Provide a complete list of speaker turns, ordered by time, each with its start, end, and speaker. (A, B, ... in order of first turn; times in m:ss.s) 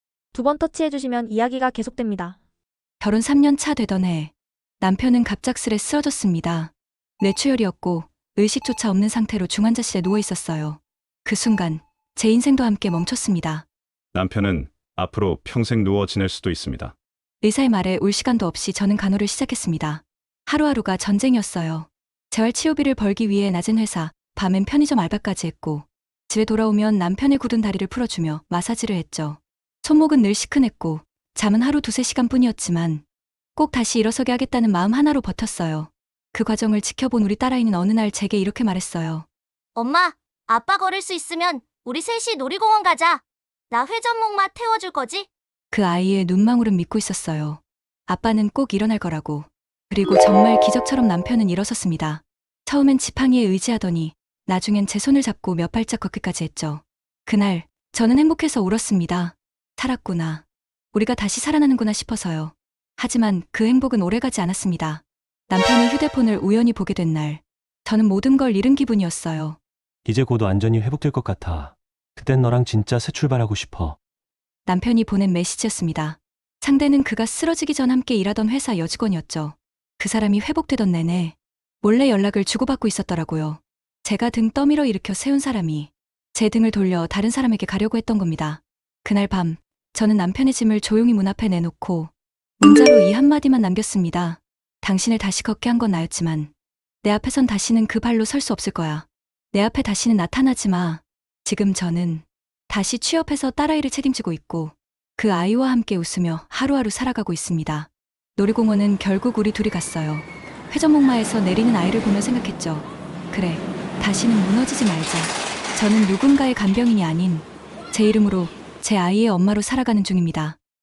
0:00.3-0:02.4 A
0:03.0-0:13.6 B
0:14.1-0:17.0 C
0:17.4-0:33.0 B
0:33.6-0:39.3 B
0:39.8-0:45.3 D
0:45.7-1:09.6 B
1:10.0-1:14.0 E
1:14.7-1:36.5 B
1:37.0-2:00.6 B